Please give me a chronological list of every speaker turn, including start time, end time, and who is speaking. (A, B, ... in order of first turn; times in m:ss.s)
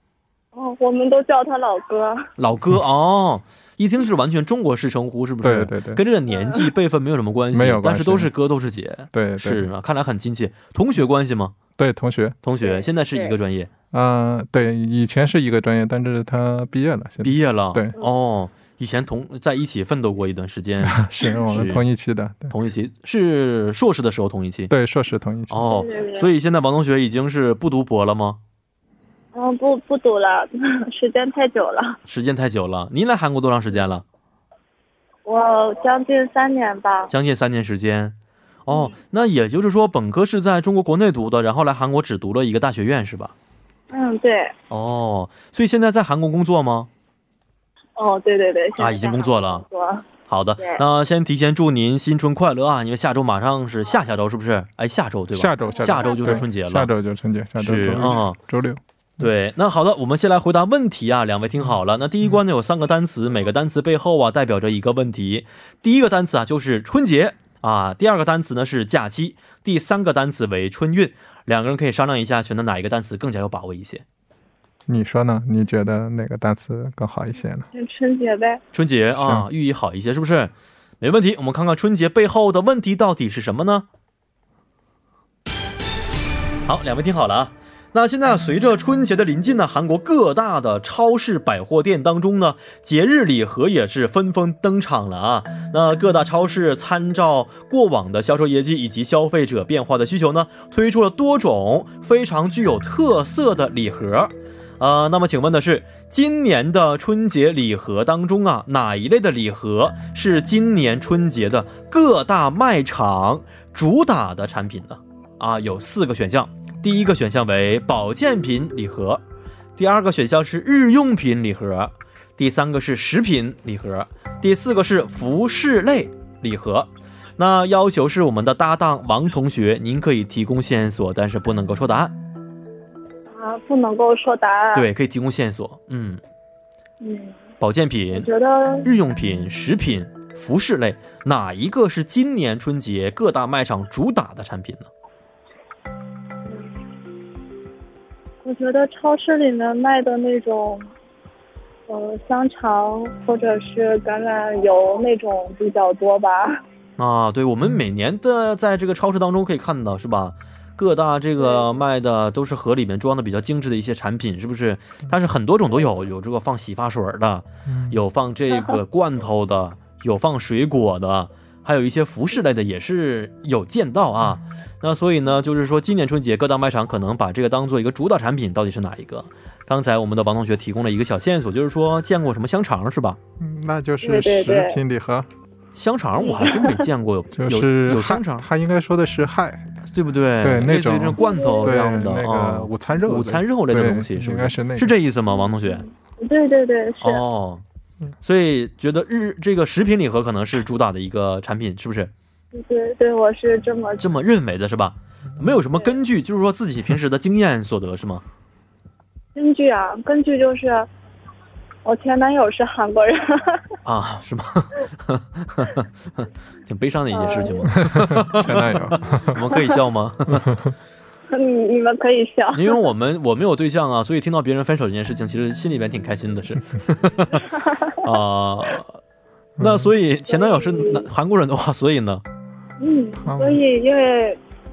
0:00.5-0:02.2 A
0:02.4-0:11.5 B
0:05.4-0:06.0 C
0:07.5-0:08.3 C
0:09.1-0:09.7 C
0:11.8-0:12.4 C
0:12.4-0:13.7 B
0:12.6-0:13.3 A
0:13.9-0:17.9 C
0:17.2-0:21.8 B
0:20.8-0:22.5 C
0:22.5-0:24.7 B
0:24.7-0:25.8 C
0:25.5-0:28.4 B
0:25.7-0:26.3 A
0:29.3-0:32.0 A
0:32.1-0:34.0 B
0:35.2-0:37.1 A
0:37.1-0:38.2 B
0:38.7-0:43.3 B
0:38.7-0:38.9 A
0:43.9-0:44.5 A
0:44.7-0:46.9 B
0:48.0-0:50.0 A
0:48.8-0:49.6 B
0:50.3-0:56.9 B
0:55.3-0:59.2 C
0:57.6-0:58.4 B
0:59.2-1:14.0 B
1:14.9-1:17.7 C
1:17.7-1:18.6 A
1:18.7-1:23.8 B
1:19.1-1:19.5 C
1:26.7-1:59.2 B
1:59.8-2:12.1 B
2:13.3-2:14.8 A
2:14.7-2:16.2 B
2:17.0-2:17.4 A
2:17.6-2:18.3 B
2:18.1-2:18.9 A
2:18.8-2:24.9 B
2:28.4-2:30.9 A
2:31.9-2:36.6 A
2:37.0-3:03.2 B
2:47.7-2:48.0 C
3:03.4-3:05.3 C
3:04.0-3:04.8 A
3:05.7-3:08.5 B
3:06.2-3:06.7 A
3:07.3-3:09.7 C
3:09.9-3:15.8 B
3:10.4-3:14.9 C
3:11.2-3:11.7 A
3:15.6-3:17.2 A
3:17.0-3:17.6 B
3:18.2-3:22.1 B
3:22.5-3:24.1 A
3:24.0-3:28.2 B
3:29.3-3:30.9 A
3:31.8-3:33.6 A
3:33.8-3:40.5 B
3:37.1-3:37.7 A
3:37.8-3:39.4 C
3:39.4-3:39.7 A
3:40.3-3:40.7 C
3:41.3-3:42.8 A
3:42.5-3:47.5 B
3:47.4-3:47.9 A
3:48.0-3:49.0 B
3:49.6-3:49.9 C
3:49.6-3:52.2 B
3:50.3-3:51.0 A
3:52.8-3:54.4 A
3:53.2-3:53.6 C